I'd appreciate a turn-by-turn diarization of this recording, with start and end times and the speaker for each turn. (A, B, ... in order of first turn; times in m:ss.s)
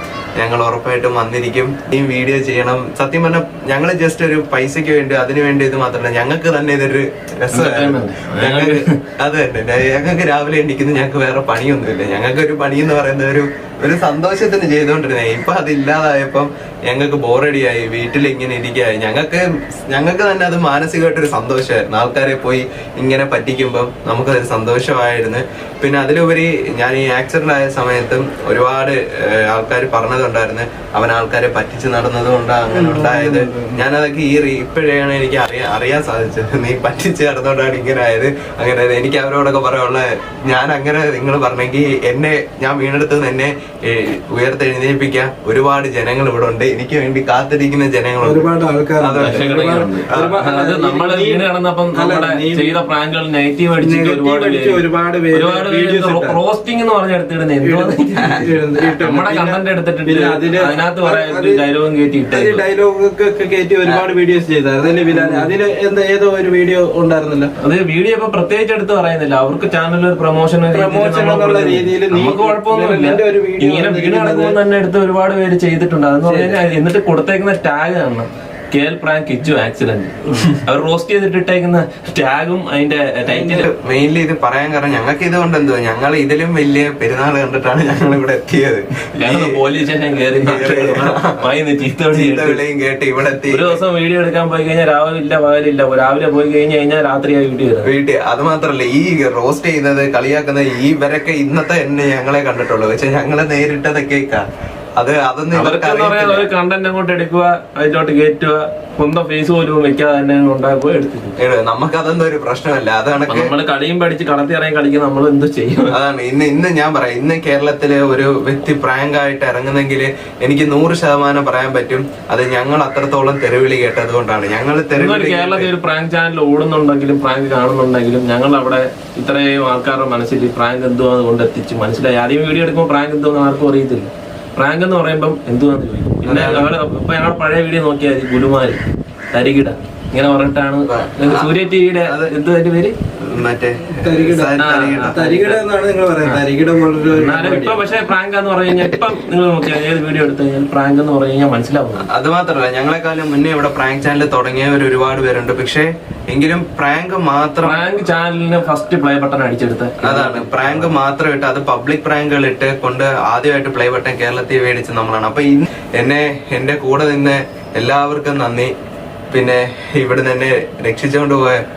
0:00.4-0:48.5 A
0:07.5-0:08.9 B
0:32.7-0:33.8 C
0:48.2-0:52.8 C
0:49.0-0:49.4 A
0:49.2-1:02.6 B
0:53.8-0:56.4 C
0:57.6-1:01.6 C
0:58.2-0:58.5 A
1:02.3-1:07.5 C
1:05.1-1:05.6 B
1:07.6-1:23.7 B
1:10.7-1:14.6 C
1:16.2-1:16.6 C
1:23.2-1:23.6 C
1:23.6-1:29.6 A
1:29.2-1:32.6 B
1:30.3-1:31.4 A
1:32.1-1:33.8 A
1:33.5-1:37.9 B
1:37.8-1:44.5 A
1:45.0-1:46.5 A
1:45.5-1:51.4 B
1:51.4-1:53.5 A
1:53.2-1:55.9 B
1:55.9-2:05.7 A
2:04.9-2:18.8 B
2:16.2-2:16.7 A
2:19.3-2:23.0 B
2:20.9-2:21.5 A
2:22.0-2:22.4 A
2:23.2-2:25.2 A
2:23.9-2:27.8 C
2:24.6-2:25.6 B
2:27.1-2:32.1 B
2:32.0-2:37.8 A
2:37.6-2:41.0 B
2:40.0-2:48.7 A
2:49.3-2:51.6 A